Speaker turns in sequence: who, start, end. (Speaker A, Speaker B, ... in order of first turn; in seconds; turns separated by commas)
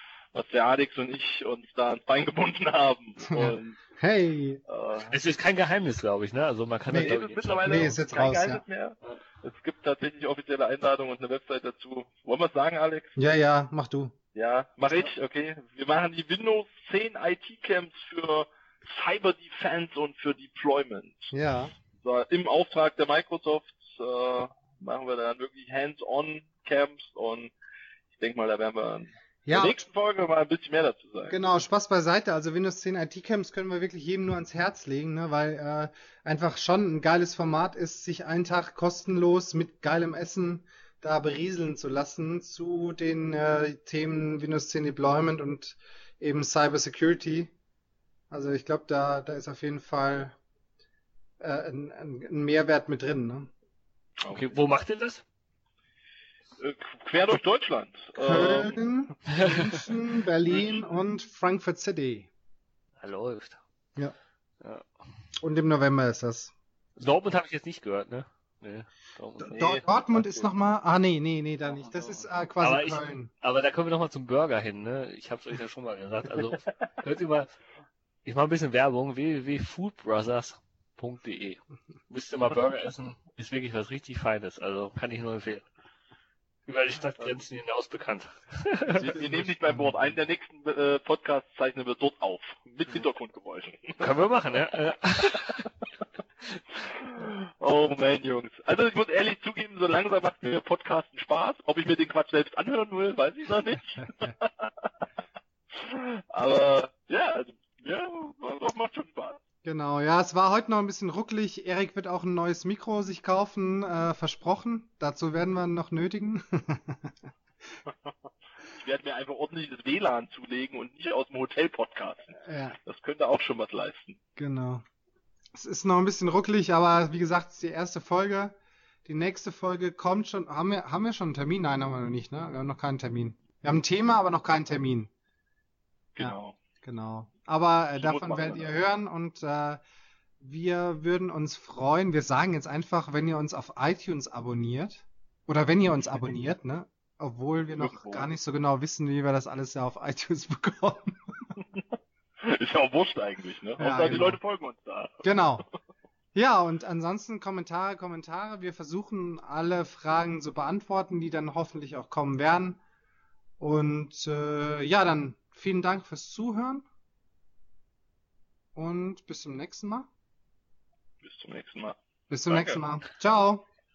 Speaker A: 0.3-3.8, Speaker B: 3.3-4.6, Speaker A: 4.7-5.1, Speaker C: 5.1-8.0, Speaker B: 6.9-8.6, Speaker A: 7.0-13.2, Speaker B: 13.2-14.1, Speaker A: 14.3-21.3, Speaker B: 21.3-21.7, Speaker A: 22.0-27.5, Speaker A: 28.1-31.3, Speaker B: 29.5-29.8, Speaker B: 31.3-47.5, Speaker B: 48.3-50.4, Speaker B: 51.4-53.5, Speaker C: 54.3-55.2, Speaker A: 56.6-58.8, Speaker B: 58.1-62.3, Speaker C: 59.3-59.7, Speaker C: 63.0-63.6, Speaker C: 64.6-64.9, Speaker B: 65.4-66.5, Speaker C: 67.0-70.5, Speaker B: 69.4-73.3, Speaker C: 72.6-77.5, Speaker C: 78.2-85.7, Speaker C: 86.7-89.2, Speaker B: 89.0-89.9, Speaker A: 89.0-94.2, Speaker C: 94.0-95.7, Speaker A: 96.8-104.9, Speaker A: 105.7-109.4, Speaker B: 109.6-117.1, Speaker A: 118.7-124.2, Speaker B: 122.4-122.8, Speaker B: 124.4-124.8, Speaker B: 125.5-128.5, Speaker B: 129.1-135.1, Speaker A: 136.2-136.5, Speaker B: 136.2-139.8, Speaker A: 137.9-138.7, Speaker B: 140.4-151.2, Speaker A: 147.8-148.2, Speaker A: 152.4-155.2, Speaker B: 153.8-154.4, Speaker B: 155.2-155.6, Speaker B: 156.3-162.8, Speaker B: 163.6-166.8, Speaker B: 168.7-170.1, Speaker A: 171.2-171.9, Speaker B: 172.3-173.6, Speaker A: 172.5-172.8